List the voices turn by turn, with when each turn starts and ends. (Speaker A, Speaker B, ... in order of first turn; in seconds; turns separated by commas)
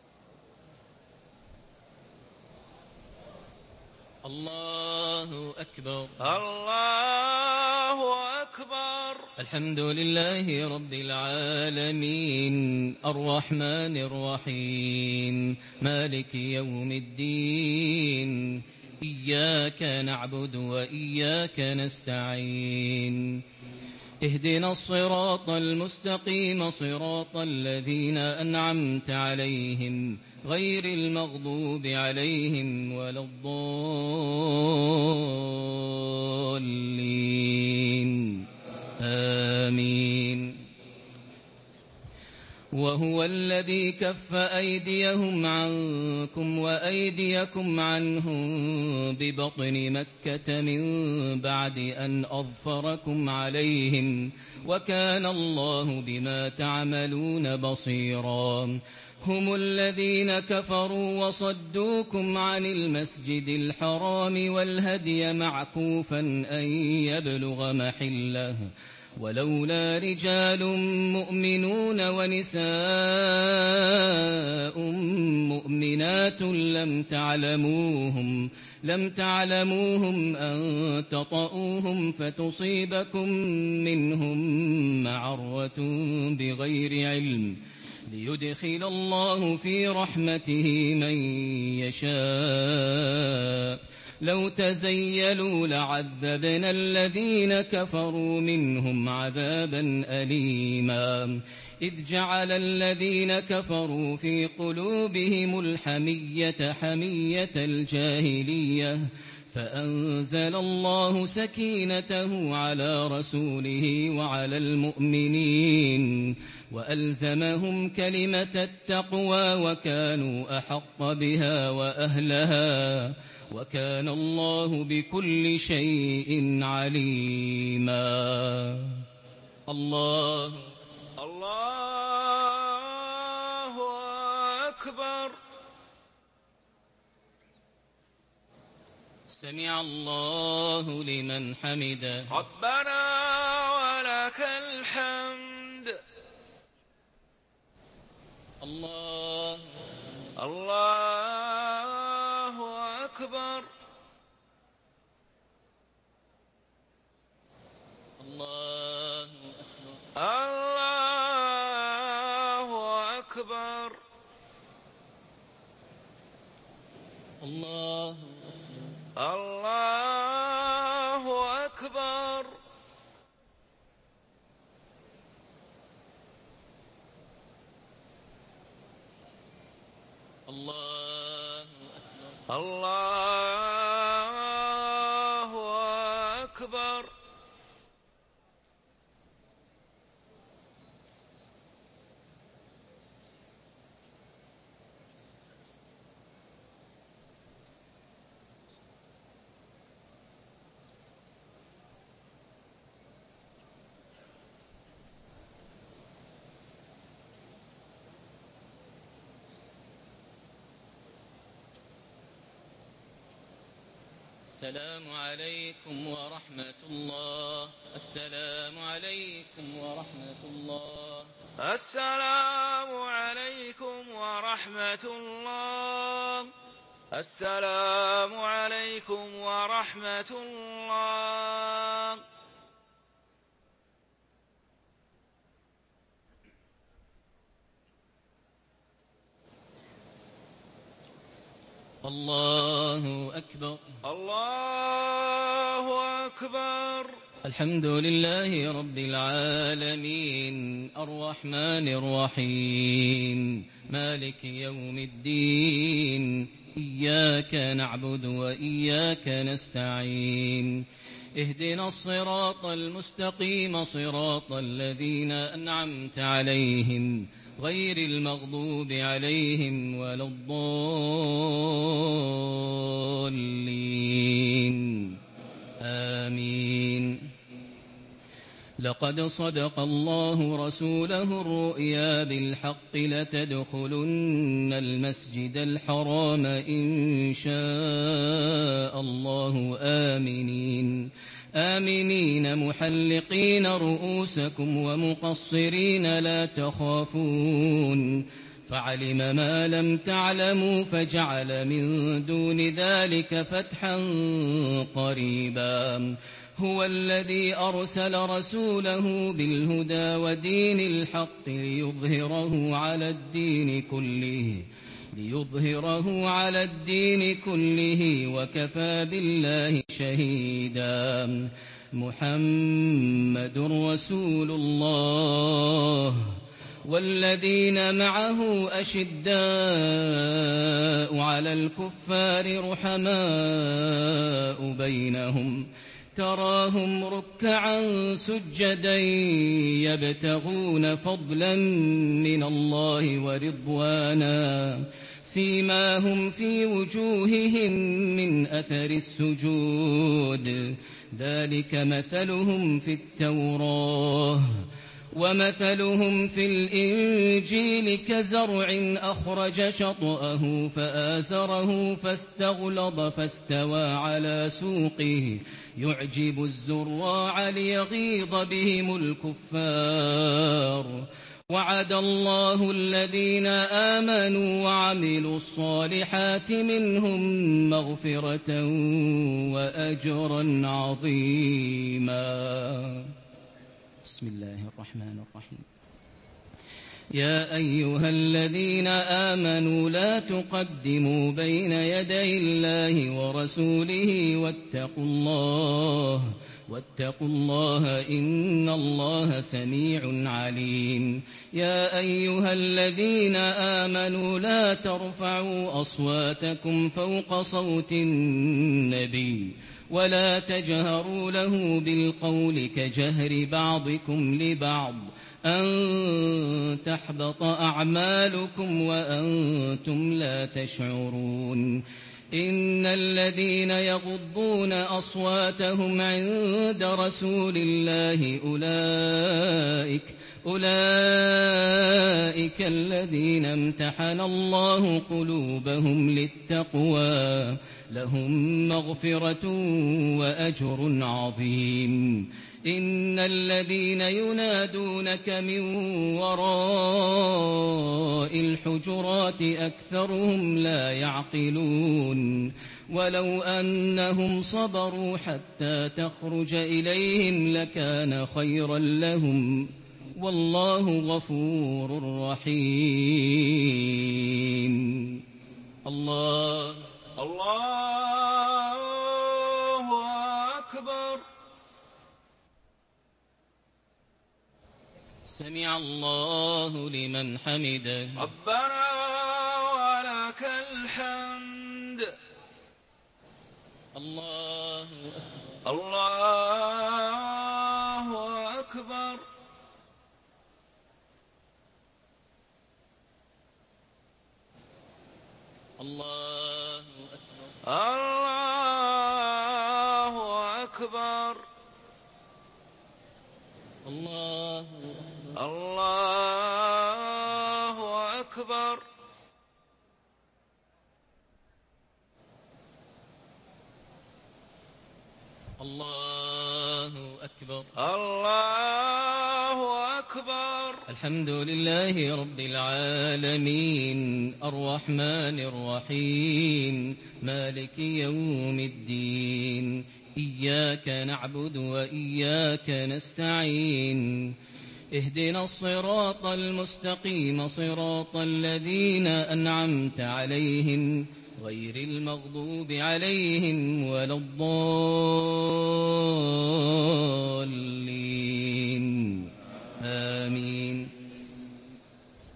Speaker A: 4.2-6.2, Speaker B: 6.2-9.3, Speaker A: 9.4-23.4, Speaker A: 24.2-40.7, Speaker A: 42.7-129.1, Speaker A: 129.7-130.7, Speaker B: 131.2-135.4, Speaker A: 139.3-142.3, Speaker B: 142.3-146.0, Speaker A: 148.6-149.8, Speaker B: 150.3-153.7, Speaker A: 158.2-159.9, Speaker B: 160.1-164.0, Speaker A: 167.4-168.8, Speaker B: 169.2-172.6, Speaker A: 180.5-182.3, Speaker B: 182.5-187.1, Speaker A: 214.5-221.3, Speaker B: 221.6-226.5, Speaker B: 227.1-232.2, Speaker A: 242.0-243.8, Speaker B: 244.0-247.1, Speaker A: 247.4-275.2, Speaker A: 275.8-277.3, Speaker A: 278.8-383.1, Speaker A: 384.0-385.6, Speaker A: 387.1-421.8, Speaker A: 422.3-465.2, Speaker A: 465.8-466.9, Speaker B: 467.2-471.2, Speaker A: 475.3-478.2, Speaker B: 478.2-482.1, Speaker A: 483.9-485.2, Speaker B: 485.6-489.2, Speaker A: 495.8-497.5, Speaker B: 497.6-501.4, Speaker A: 503.8-505.4, Speaker B: 505.3-508.8, Speaker A: 515.6-517.7, Speaker B: 517.8-520.8, Speaker A: 520.9-534.4, Speaker A: 534.9-550.9